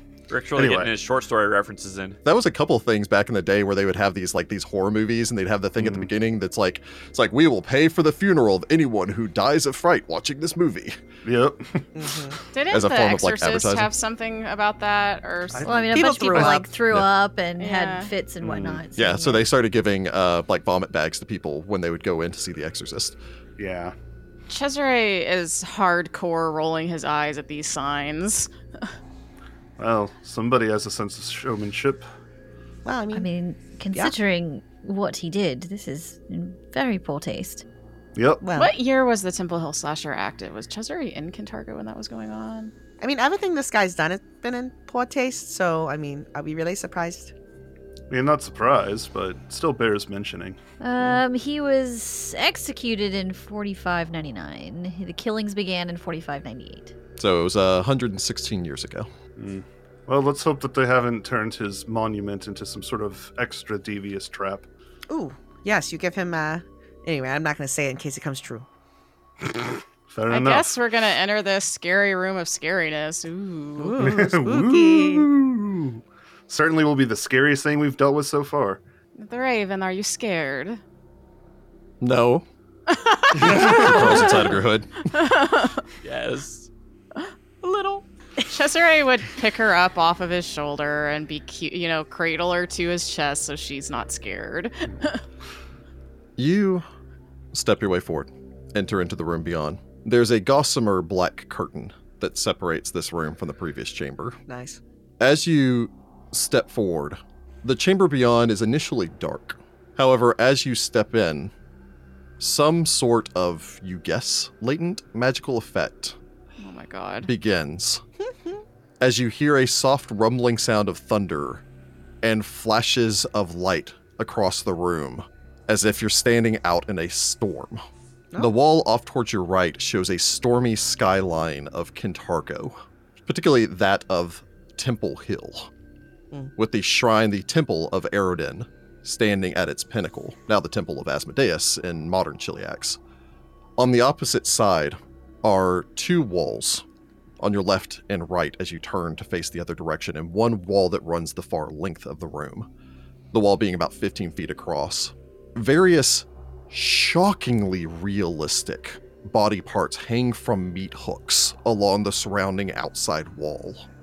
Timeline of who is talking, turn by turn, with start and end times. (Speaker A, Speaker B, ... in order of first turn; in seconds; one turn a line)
Speaker A: 0.3-2.2
Speaker B: 0.5-0.9
Speaker C: 2.2-11.0
Speaker B: 5.8-6.1
Speaker B: 11.2-12.0
Speaker D: 11.9-12.4
Speaker E: 12.5-16.2
Speaker C: 12.7-13.9
Speaker B: 15.5-15.9
Speaker F: 15.6-19.4
Speaker D: 15.9-16.6
Speaker E: 17.6-18.1
Speaker B: 18.4-18.8
Speaker C: 18.9-23.2
Speaker B: 23.6-23.9
Speaker E: 24.5-28.9
Speaker B: 29.8-32.0
Speaker D: 32.8-33.3
Speaker F: 33.1-37.6
Speaker B: 38.1-38.4
Speaker D: 38.4-38.7
Speaker E: 38.5-42.7
Speaker D: 43.0-47.3
Speaker B: 48.1-50.6
Speaker F: 50.8-56.9
Speaker C: 57.2-59.1
Speaker B: 59.4-64.7
Speaker D: 65.1-68.7
Speaker B: 69.4-70.8
Speaker E: 70.3-74.0
Speaker D: 73.8-75.3
Speaker B: 74.0-78.8
Speaker E: 79.2-80.8
Speaker C: 82.0-82.5
Speaker E: 82.9-84.5
Speaker C: 83.3-85.1
Speaker B: 83.5-83.7
Speaker E: 85.1-85.8
Speaker A: 86.0-86.7
Speaker E: 87.1-95.2
Speaker C: 96.4-96.8
Speaker C: 97.5-104.4
Speaker D: 104.5-104.8
Speaker C: 105.2-111.5
Speaker C: 112.4-116.2
Speaker E: 116.6-117.3
Speaker C: 117.2-118.0
Speaker D: 118.2-118.6
Speaker C: 119.0-121.6
Speaker C: 122.2-127.8
Speaker C: 128.4-135.7
Speaker C: 136.6-143.0
Speaker C: 143.8-146.8
Speaker C: 147.4-152.7
Speaker C: 153.3-163.9